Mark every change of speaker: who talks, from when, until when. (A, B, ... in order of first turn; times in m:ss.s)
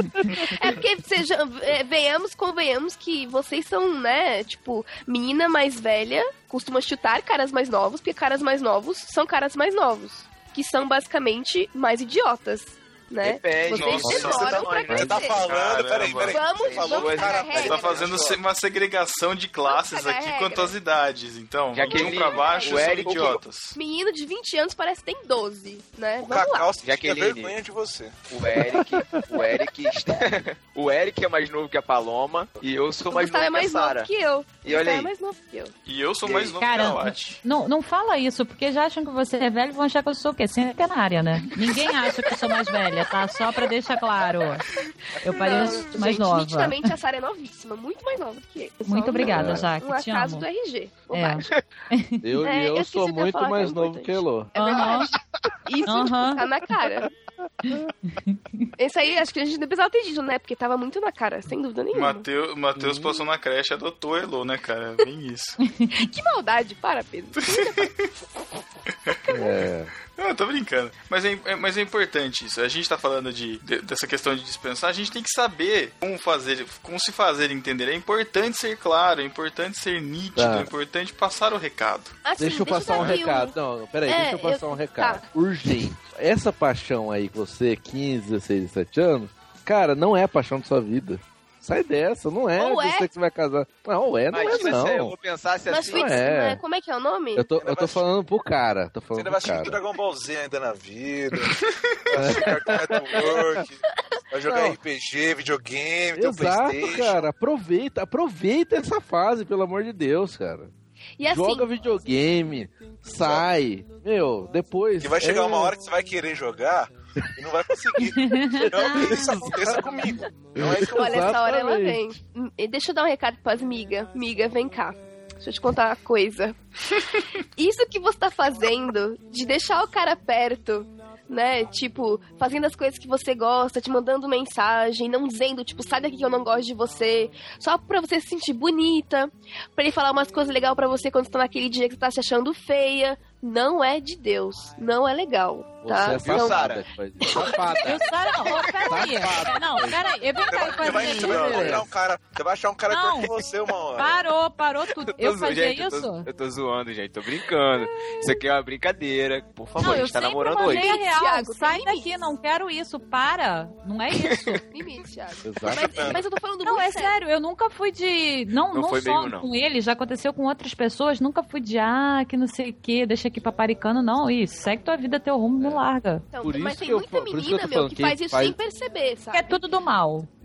0:00.5-0:15.5 A
0:13.2-0:15.4 B
0:13.7-0:14.6 C
0:14.2-0:18.4 D
0:15.4-0:16.4 C
0:16.2-0:18.0 A
0:16.6-0:18.2 B
0:17.5-0:23.8 C
0:19.7-0:20.8 A
0:21.7-0:23.4 B
0:21.8-0:26.8 A
0:26.2-0:28.3 D
0:26.8-0:27.5 B
0:28.3-0:34.1 B
0:28.8-0:29.4 E
0:33.1-0:35.7 A
0:34.6-0:35.1 B
0:35.8-0:37.4 C
0:36.2-0:36.6 B
0:36.6-0:44.6 F
0:45.2-0:46.8 F
0:45.2-0:51.5 A
0:48.8-0:50.5 F
0:49.2-0:49.7 E
0:51.1-0:52.2 F
0:52.2-0:54.5 E
0:52.4-0:55.1 A
0:54.6-0:55.1 F
0:55.6-0:57.1 A
0:55.8-0:56.4 F
0:58.2-0:58.7 F
0:58.8-1:02.2 A
1:01.9-1:05.6 C
1:02.8-1:03.2 E
1:05.9-1:08.1 A
1:07.4-1:08.0 C
1:09.1-1:09.4 A
1:09.3-1:09.9 E
1:10.2-1:22.2 C
1:20.4-1:20.7 E
1:22.2-1:23.5 A
1:22.4-1:35.1 E
1:24.0-1:25.2 A
1:32.6-1:33.1 A
1:34.3-1:36.2 B
1:34.4-1:34.7 A
1:35.7-1:37.5 A
1:35.9-1:36.6 E
1:37.3-1:39.8 E
1:37.6-1:38.0 D
1:39.2-1:41.6 D
1:42.1-1:43.8 D
1:42.1-1:43.6 E
1:44.3-1:47.2 D
1:44.4-1:44.8 E
1:46.2-1:50.7 E
1:51.2-1:51.7 A
1:51.3-1:55.7 E
1:53.2-1:53.4 D
1:55.0-2:01.3 D
1:58.2-1:58.7 F
1:58.9-1:59.6 E
2:00.6-2:02.0 E
2:00.8-2:07.0 A
2:07.6-2:26.7 A
2:25.8-2:28.0 E
2:26.0-2:26.9 B
2:27.2-2:27.8 A
2:27.8-2:31.8 F
2:28.8-2:30.1 E
2:28.9-2:29.3 D
2:30.5-2:34.2 D
2:30.5-2:31.2 A
2:30.9-2:31.8 C
2:31.1-2:31.8 E
2:32.9-2:33.4 F
2:33.9-2:36.3 F
2:35.0-2:40.9 B
2:39.8-2:44.6 F
2:40.6-2:42.0 A
2:44.2-2:44.6 B
2:44.7-2:47.1 A
2:45.4-2:46.2 E
2:45.6-2:46.2 D
2:46.6-2:56.2 F
2:48.7-2:49.5 B
2:55.6-2:55.8 E
2:56.3-2:59.6 A
2:56.4-2:58.6 E
2:59.3-3:00.3 F